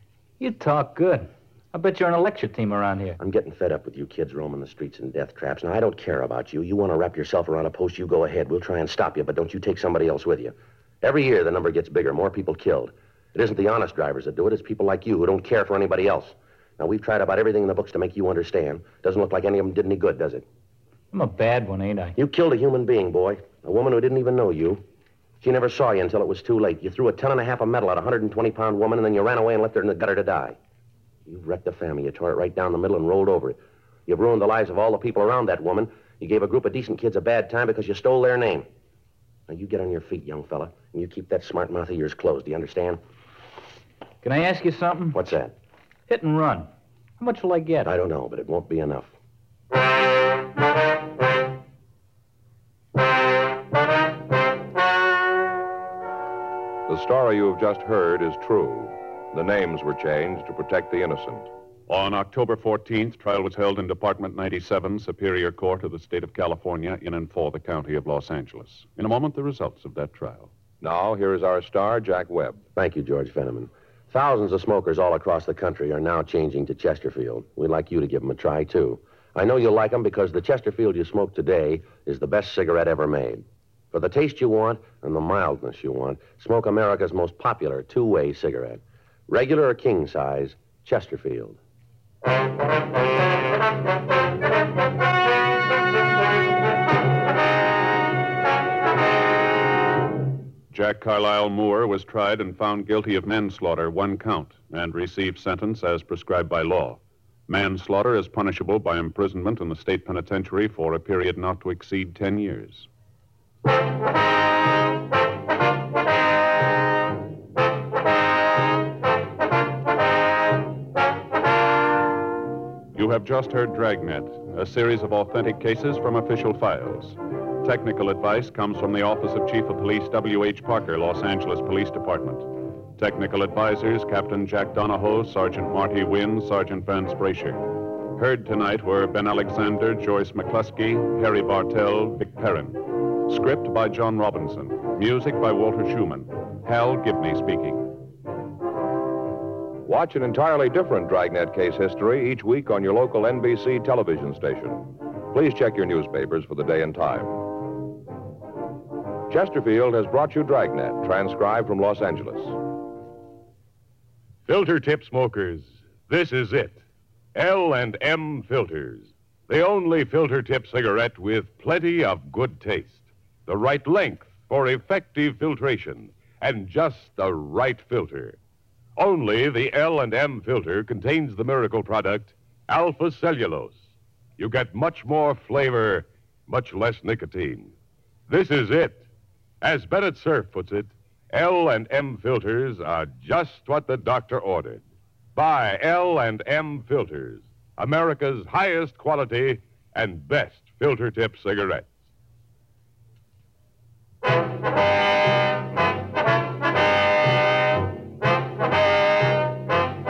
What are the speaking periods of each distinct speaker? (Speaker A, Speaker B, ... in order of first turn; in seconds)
Speaker A: 0.4-3.2, 21.1-22.2, 44.2-45.2, 46.1-46.7, 47.2-47.9
Speaker B: 3.2-20.4, 22.2-24.8, 25.4-30.6, 31.3-38.7, 39.5-43.0, 45.1-45.5, 47.9-49.1, 72.8-91.6
Speaker C: 56.9-61.5, 70.8-72.6, 149.8-157.3, 159.3-162.6
Speaker D: 61.9-70.5, 100.7-112.9, 122.9-137.6, 138.2-147.9
Speaker E: 164.4-166.8, 167.3-178.4, 179.0-183.8, 184.4-187.7, 188.3-189.1, 189.6-194.8, 195.3-201.9